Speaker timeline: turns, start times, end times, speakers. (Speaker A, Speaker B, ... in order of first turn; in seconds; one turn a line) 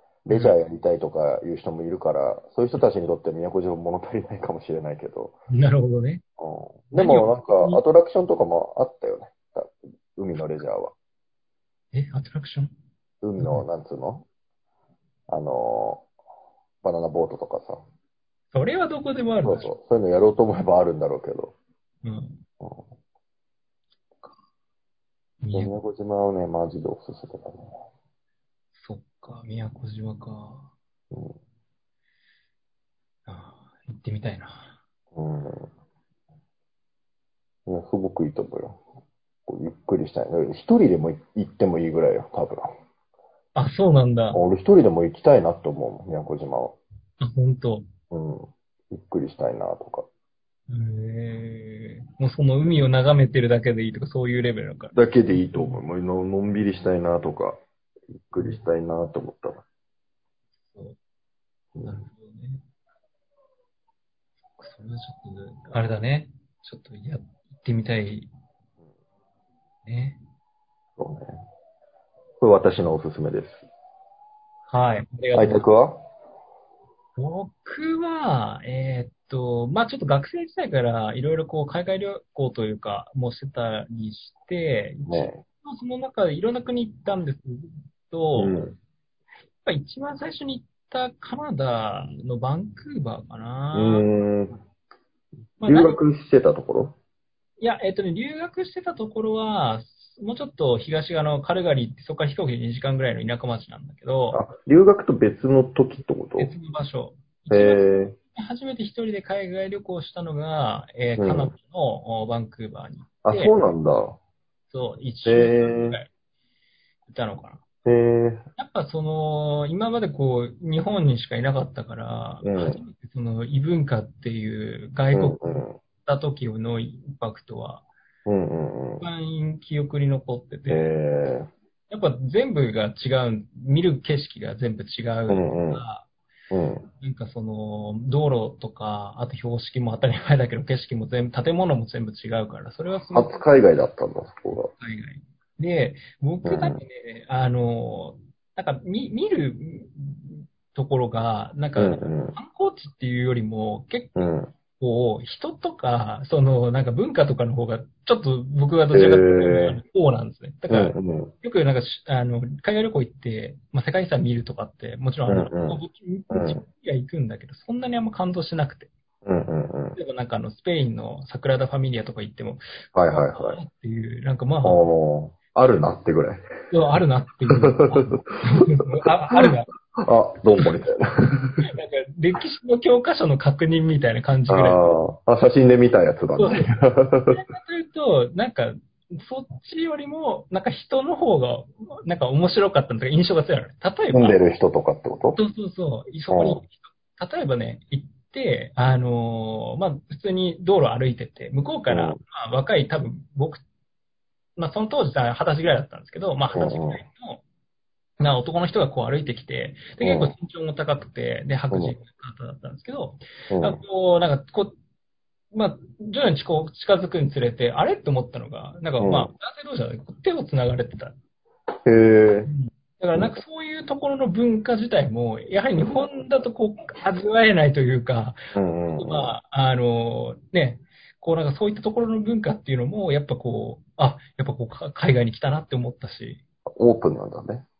Speaker A: 0.2-5.3
Speaker B: 0.3-0.6
Speaker B: 5.5-6.2
Speaker A: 6.4-10.9
Speaker B: 7.0-7.8
Speaker B: 11.9-12.7
Speaker A: 13.2-14.2
Speaker B: 13.4-13.6
Speaker A: 15.3-16.1
Speaker A: 16.8-17.8
Speaker B: 18.5-19.7
Speaker A: 19.4-21.5
Speaker B: 22.0-22.4
Speaker B: 25.4-25.8
Speaker A: 25.5-27.7
Speaker B: 28.8-30.7
Speaker A: 31.1-31.4
Speaker B: 33.3-34.8
Speaker A: 35.1-35.7
Speaker A: 37.7-38.8
Speaker A: 39.5-42.7
Speaker B: 43.5-44.4
Speaker A: 44.3-46.8
Speaker B: 47.2-47.9
Speaker A: 48.1-50.1
Speaker B: 50.7-55.8
Speaker A: 54.9-57.6
Speaker A: 58.3-59.6
Speaker B: 58.4-58.6
Speaker B: 60.7-61.0
Speaker B: 61.8-62.6
Speaker B: 64.6-68.3
Speaker B: 69.8-70.2
Speaker A: 71.0-71.4
Speaker A: 72.4-73.6
Speaker B: 74.7-75.7
Speaker A: 75.3-76.0
Speaker B: 77.2-88.6
Speaker A: 85.1-85.4
Speaker A: 88.4-88.7
Speaker B: 89.6-94.1
Speaker A: 93.7-94.6
Speaker B: 95.6-96.0
Speaker A: 95.6-96.9
Speaker B: 97.6-104.4
Speaker A: 104.3-106.5
Speaker B: 106.4-113.5
Speaker A: 107.5-108.2
Speaker A: 111.2-111.5
Speaker A: 113.2-114.2
Speaker B: 114.7-116.1
Speaker A: 115.2-116.0
Speaker B: 117.1-117.6
Speaker A: 117.8-118.4
Speaker B: 118.6-127.8
Speaker A: 122.4-122.8
Speaker A: 125.1-125.8
Speaker A: 128.2-129.0
Speaker B: 129.0-130.9
Speaker A: 130.7-131.5
Speaker B: 131.9-136.1
Speaker A: 135.3-135.8
Speaker A: 136.5-136.8
Speaker B: 137.0-143.4
Speaker A: 143.1-144.7
Speaker B: 144.8-154.2
Speaker A: 146.4-146.8
Speaker A: 151.8-152.3
Speaker A: 154.2-154.5
Speaker B: 154.8-168.9
Speaker A: 158.9-159.8
Speaker A: 160.7-161.3
Speaker A: 165.3-166.6
Speaker A: 169.2-170.0
Speaker B: 169.9-172.6
Speaker A: 172.9-173.6
Speaker B: 173.3-174.8
Speaker A: 174.6-176.4
Speaker B: 176.7-179.7
Speaker A: 177.5-181.7
Speaker B: 181.6-184.8
Speaker A: 184.5-187.4
Speaker B: 186.4-186.7
Speaker B: 187.3-194.4
Speaker A: 194.1-195.4
Speaker B: 195.3-203.6
Speaker A: 196.3-196.6
Speaker A: 201.9-202.2
Speaker B: 204.6-207.4
Speaker A: 206.5-207.0
Speaker B: 208.2-214.7
Speaker A: 210.0-210.3
Speaker A: 211.7-211.9
Speaker A: 213.5-213.8
Speaker B: 215.5-221.1
Speaker A: 219.0-219.3
Speaker A: 221.8-222.5
Speaker B: 222.5-228.4
Speaker A: 223.1-223.4
Speaker A: 225.8-226.1
Speaker A: 228.5-229.3
Speaker B: 229.0-236.4
Speaker A: 236.7-237.6